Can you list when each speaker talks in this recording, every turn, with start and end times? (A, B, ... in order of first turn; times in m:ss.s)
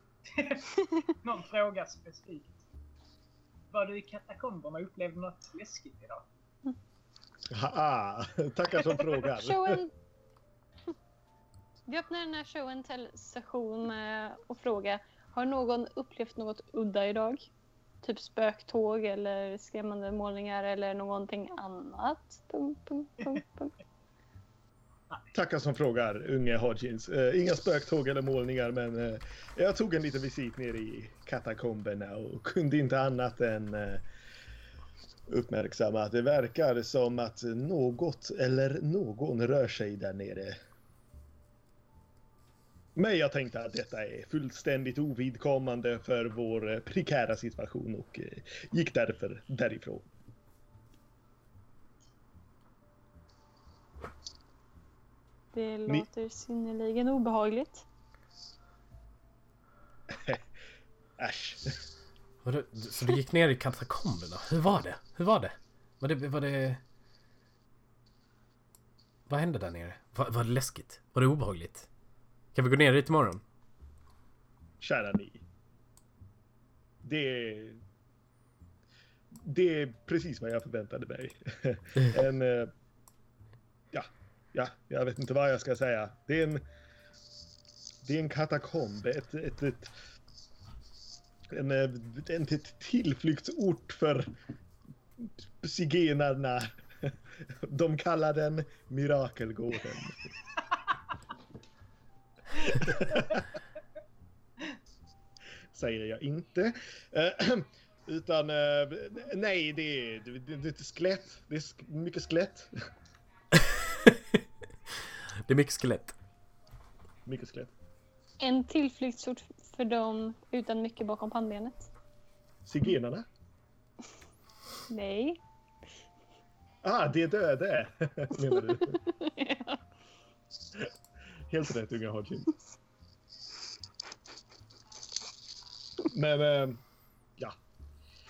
0:00.3-0:02.6 A
0:03.7-0:06.3 A
0:07.5-0:09.8 B
0:09.4-0:09.9 C
0:11.9-0:17.5 C
0:18.0-0:23.7 C
0:25.3-0:34.0 B
0:35.3-0:40.6 B
0:43.0-0:50.1 B
0:55.5-0:57.8 C
1:00.1-1:00.5 B
1:01.2-1:01.8 B
1:02.4-1:06.8 D
1:09.3-1:11.9 D
1:12.5-1:13.4 D
1:14.8-1:15.4 B
1:17.0-1:17.8 B
1:19.3-1:22.7 B
1:23.9-1:26.6 B
1:28.0-1:29.9 B
1:31.5-1:34.3 B
1:35.2-1:40.3 B
1:42.6-1:43.5 B
1:45.7-1:52.7 B
1:53.6-1:54.4 D
1:55.5-1:56.2 D
1:57.3-1:57.7 B
1:58.4-2:01.9 C
2:02.6-2:03.3 B
2:04.9-2:05.4 C
2:06.8-2:09.0 B
2:08.7-2:09.8 C
2:11.5-2:12.5 B
2:16.0-2:16.8 B